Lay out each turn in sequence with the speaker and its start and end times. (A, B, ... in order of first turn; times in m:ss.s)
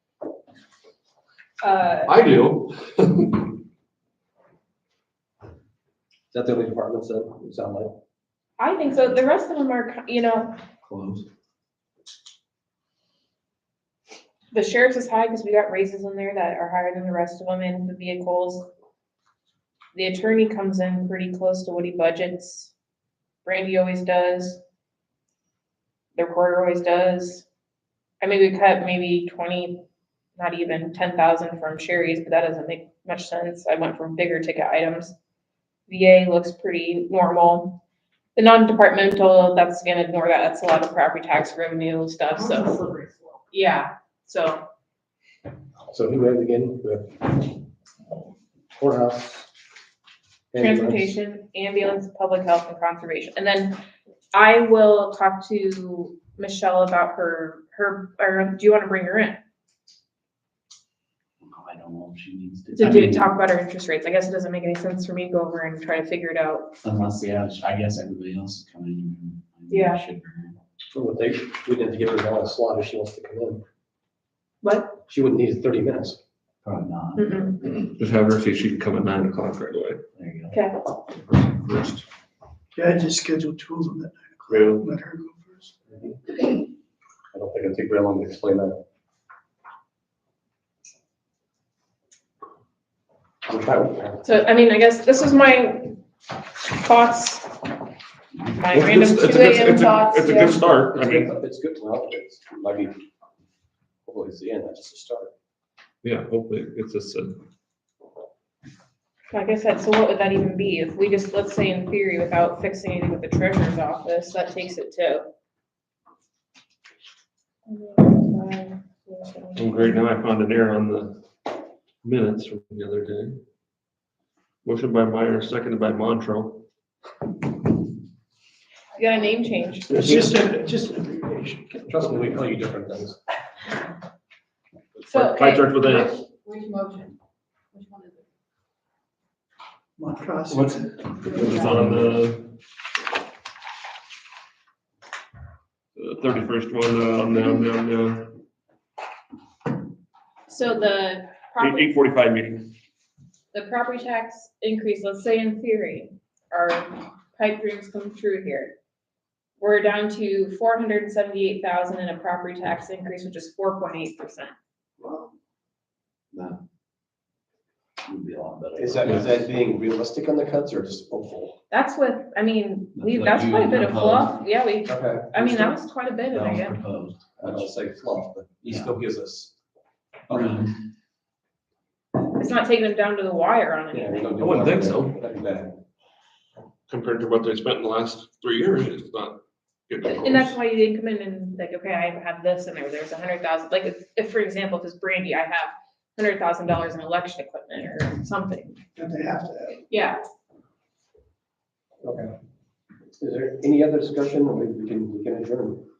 0:01.6-0:02.1 A
0:02.0-0:03.5 B
0:06.3-0:07.9 C
0:08.6-0:10.6 A
0:10.8-0:11.2 D
0:14.5-0:18.6 A
0:19.9-0:22.7 A
0:23.4-0:24.6 A
0:26.1-0:27.4 A
0:28.2-0:29.8 A
0:30.4-0:35.1 A
0:35.9-0:37.8 A
0:38.4-0:42.7 A
0:42.3-0:43.4 E
0:43.5-0:44.6 A
0:45.9-0:47.5 C
0:48.7-0:49.5 C
0:50.5-0:51.2 C
0:50.6-0:53.8 A
0:54.3-0:59.4 A
1:01.4-1:03.2 D
1:02.7-1:06.7 A
1:06.8-1:10.6 D
1:09.7-1:10.0 A
1:10.9-1:13.6 C
1:14.6-1:15.0 A
1:15.1-1:16.2 C
1:16.6-1:17.4 D
1:17.2-1:17.6 A
1:17.6-1:20.0 B
1:20.2-1:20.6 D
1:20.5-1:20.8 A
1:21.3-1:22.0 B
1:22.8-1:25.7 F
1:24.5-1:24.8 B
1:27.3-1:28.8 C
1:33.4-1:34.2 C
1:34.2-1:36.0 A
1:36.6-1:37.5 A
1:38.4-1:40.6 A
1:38.7-1:41.3 B
1:40.9-1:43.0 C
1:44.0-1:45.3 C
1:46.0-1:47.4 B
1:49.3-1:55.2 A
1:57.6-2:00.0 A
1:59.6-2:01.2 B
2:02.0-2:03.4 B
2:04.6-2:06.6 B
2:08.9-2:10.0 A
2:09.9-2:10.4 C
2:10.1-2:11.6 F
2:11.7-2:13.2 C
2:15.0-2:16.2 B
2:15.1-2:15.7 A
2:15.7-2:17.2 E
2:17.7-2:18.2 E
2:20.0-2:20.9 F
2:21.2-2:22.5 B
2:21.2-2:21.6 E
2:26.0-2:28.3 B
2:30.5-2:31.9 A
2:31.6-2:32.7 B
2:33.5-2:38.7 A
2:39.6-2:44.5 A
2:45.0-2:45.3 C
2:46.3-2:46.6 D
2:48.0-2:49.5 D
2:48.8-2:51.6 C
2:51.7-2:56.8 A
2:52.9-2:54.4 D
2:54.8-2:55.7 C
2:56.3-2:57.7 D
2:57.4-2:59.5 C
2:58.6-2:58.9 D
3:00.3-3:00.7 C
3:00.3-3:00.7 D
3:02.3-3:04.2 A
3:03.9-3:05.8 C
3:04.4-3:05.2 B
3:06.9-3:10.6 B
3:10.0-3:18.8 A
3:19.0-3:19.8 F
3:19.9-3:20.2 A
3:22.0-3:22.3 C
3:23.2-3:25.8 C